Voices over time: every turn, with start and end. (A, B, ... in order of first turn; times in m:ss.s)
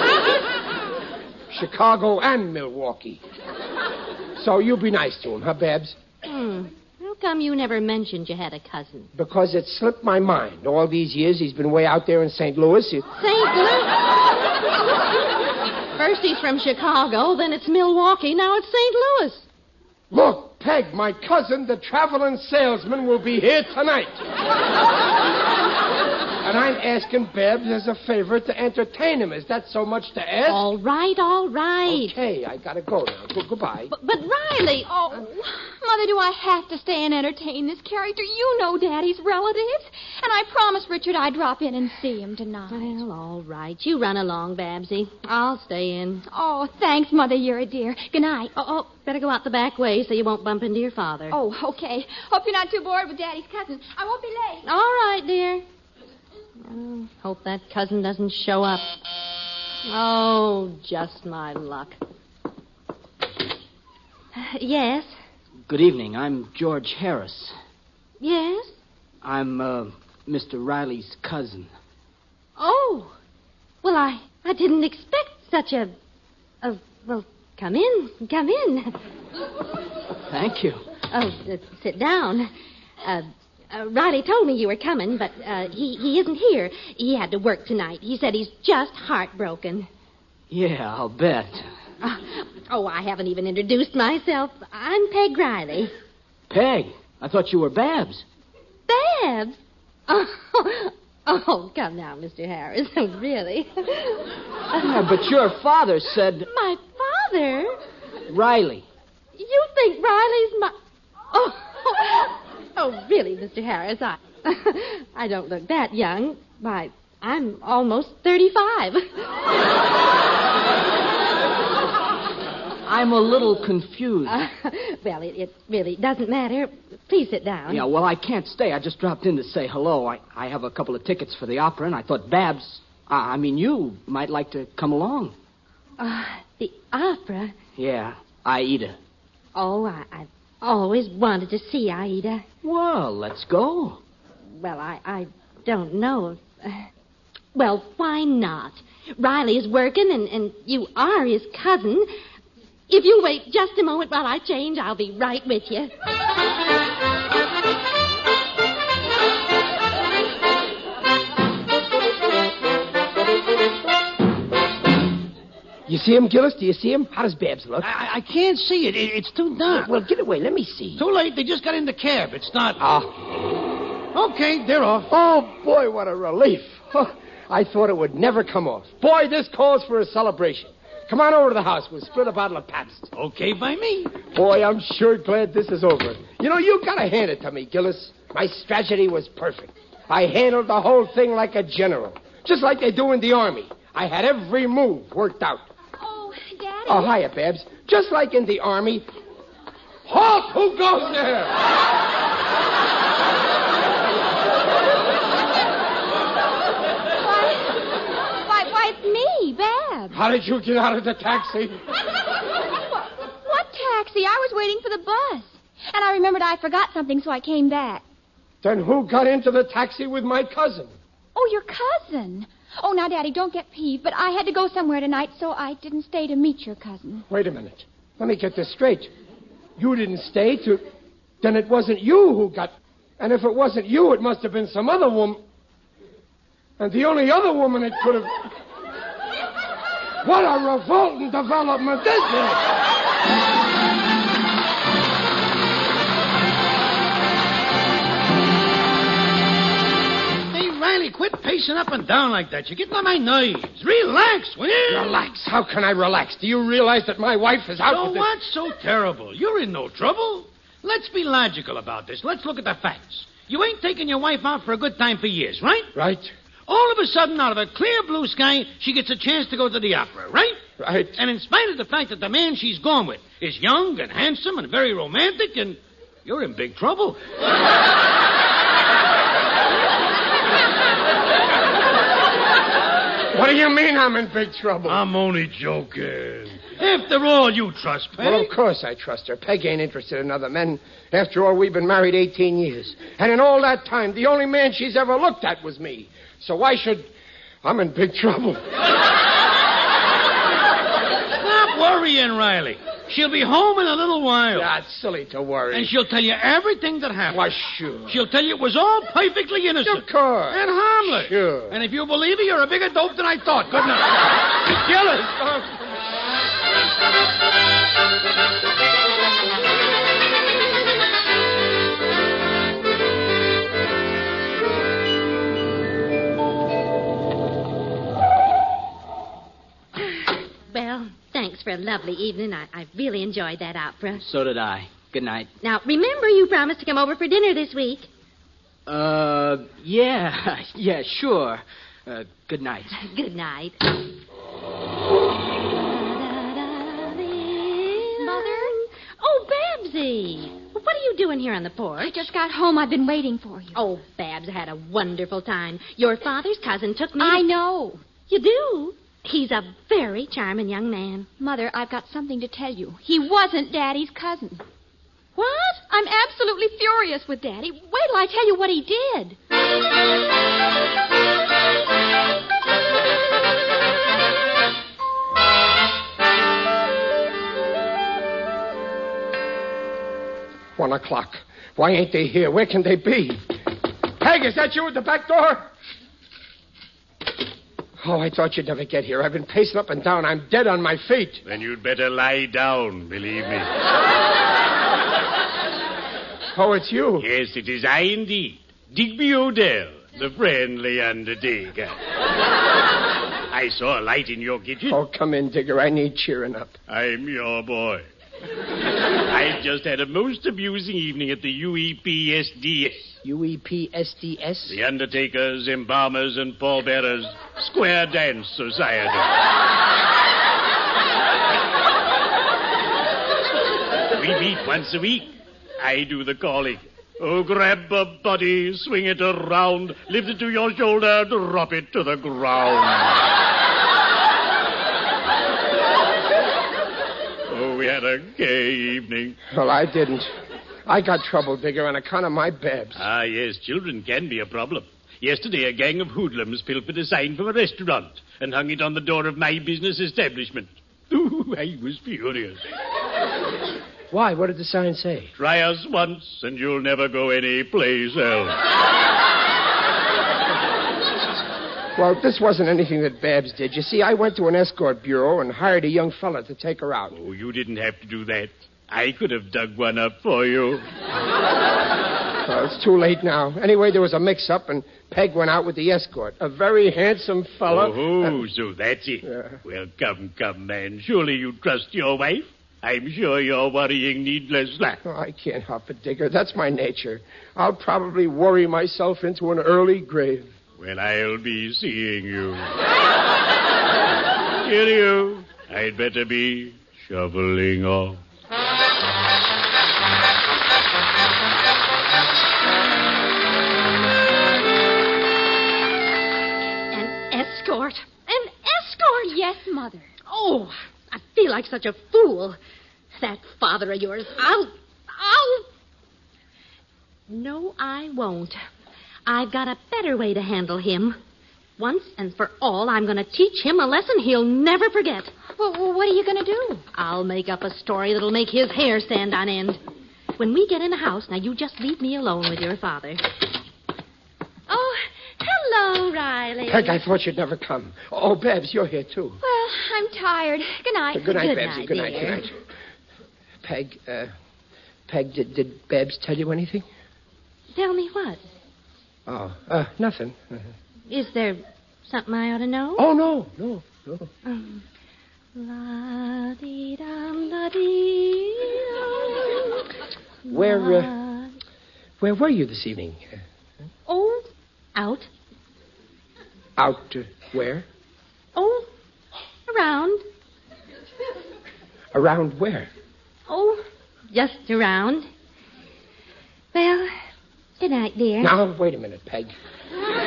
0:01.5-0:03.2 A
0:04.4-0:06.0 A
0:06.2-0:09.1 B
0:09.2-0:13.1 A
0:13.2-0:14.0 B
0:16.0-0:19.5 B
0:20.1-0:24.2 A
0:26.4-0:30.7 A
0:30.5-0:32.2 B
0:31.9-0:33.9 A
0:33.9-0:34.9 B
0:34.9-0:43.0 C
0:42.7-0:46.2 B
0:46.3-0:48.5 C
0:48.6-0:51.4 B
0:51.3-0:54.7 C
0:54.6-0:55.6 B
0:56.6-0:58.9 B
0:59.9-1:02.0 B
1:04.4-1:05.1 B
1:05.7-1:07.5 D
1:08.2-1:08.7 B
1:09.2-1:11.7 D
1:12.6-1:13.2 B
1:13.8-1:15.9 B
1:16.6-1:19.0 B
1:20.3-1:20.8 D
1:21.1-1:22.5 B
1:23.0-1:29.9 B
1:30.5-1:31.7 D
1:32.0-1:35.9 B
1:36.5-1:38.2 D
1:38.9-1:44.2 B
1:44.7-1:46.5 D
1:46.5-1:47.8 B
1:48.3-1:48.9 D
1:49.4-1:50.8 B
1:51.3-1:59.3 B
2:02.9-2:04.4 D
2:04.3-2:07.9 B
2:07.7-2:15.4 D
2:16.0-2:17.6 B
2:17.8-2:19.0 D
2:19.6-2:22.4 B
2:22.6-2:24.0 D
2:24.6-2:26.9 B
2:27.6-2:32.1 B
2:32.9-2:35.9 B
2:45.9-2:47.9 A
2:47.8-2:49.9 E
2:49.7-2:51.0 A
2:51.0-2:52.8 E
2:52.8-2:53.1 A
2:54.1-2:55.1 E
2:55.1-3:03.1 A
3:03.1-3:04.2 E
3:04.2-3:15.7 A
3:16.0-3:17.1 C
3:16.9-3:19.1 A
3:20.1-3:21.6 A
3:27.2-3:27.7 C
3:28.4-3:30.2 C
3:30.1-3:31.8 A
3:33.2-3:38.0 C
3:38.6-3:40.9 A
3:41.4-3:47.2 C
3:47.3-3:49.1 A
3:49.8-3:50.8 A
3:51.4-3:55.4 A
3:56.8-3:58.5 A
4:00.2-4:02.6 A
4:10.5-4:15.2 E
4:14.9-4:18.3 A
4:17.8-4:25.9 E
4:26.0-4:26.3 A
4:26.7-4:30.6 E
4:30.8-4:31.2 A
4:31.2-4:37.2 E
4:43.3-4:45.0 A
4:44.9-4:48.5 E
4:48.2-4:57.1 A
4:57.6-4:58.6 A
5:01.4-5:04.7 E
5:04.5-5:05.9 A
5:05.7-5:07.5 E
5:07.3-5:08.2 A
5:08.1-5:14.2 E
5:09.8-5:11.8 A
5:14.7-5:15.8 A
5:30.0-5:34.2 B
5:34.2-5:35.5 D
5:35.6-5:38.1 B
5:38.9-5:43.0 D
5:42.9-5:44.0 B
5:45.8-5:52.2 B
5:48.2-5:48.8 C
5:52.0-5:53.8 C
5:53.8-5:57.5 B
5:57.2-5:58.0 C
5:58.3-6:01.3 B
6:01.4-6:04.6 C
6:05.4-6:05.8 B
6:05.8-6:09.4 C
6:20.8-6:23.6 A
6:24.2-6:25.7 A
6:28.0-6:31.4 A
6:31.4-6:33.7 F
6:36.5-6:37.3 A
6:37.2-6:42.0 F
6:43.5-6:45.0 F
6:44.9-6:46.8 A
6:46.9-6:48.0 F
6:49.2-6:53.2 F
6:53.2-6:54.8 A
6:54.7-6:59.3 F
7:04.1-7:13.2 F
7:17.5-7:19.4 F
7:19.5-7:20.3 A
7:20.9-7:23.1 A
7:23.0-7:32.6 F
7:34.1-7:35.3 A
7:35.4-7:38.6 F
7:42.0-7:47.2 A
7:47.1-7:50.8 F
7:52.4-7:58.4 A
7:57.7-8:05.0 F
7:59.3-7:59.6 A
8:05.0-8:10.5 A
8:10.8-8:12.7 F
8:14.6-8:18.2 F
8:26.9-8:29.4 B
8:29.3-8:30.1 C
8:30.3-8:32.6 B
8:33.2-8:35.7 B
8:37.3-8:38.6 B
8:39.3-8:41.2 B
8:41.8-8:45.3 B
8:45.6-8:46.8 C
8:46.9-8:49.8 B
8:50.4-8:53.2 B
8:54.7-8:57.0 B
8:56.7-8:59.4 A
8:59.4-9:01.4 C
9:01.1-9:02.6 A
9:01.2-9:02.4 B
9:03.6-9:04.3 A
9:05.1-9:06.9 A
9:07.8-9:08.4 B
9:09.3-9:10.7 A
9:11.1-9:13.0 B
9:13.0-9:14.3 A
9:14.4-9:14.8 B
9:15.6-9:19.9 B
9:20.5-9:21.1 A
9:20.5-9:21.5 B
9:22.2-9:23.4 A
9:24.1-9:24.4 B
9:25.0-9:25.3 B
9:26.8-9:27.9 A
9:28.6-9:28.9 B
9:29.7-9:30.2 B
9:32.1-9:32.9 A
9:33.5-9:35.3 B
9:36.7-9:37.1 B
9:37.8-9:38.5 B
9:38.4-9:39.5 A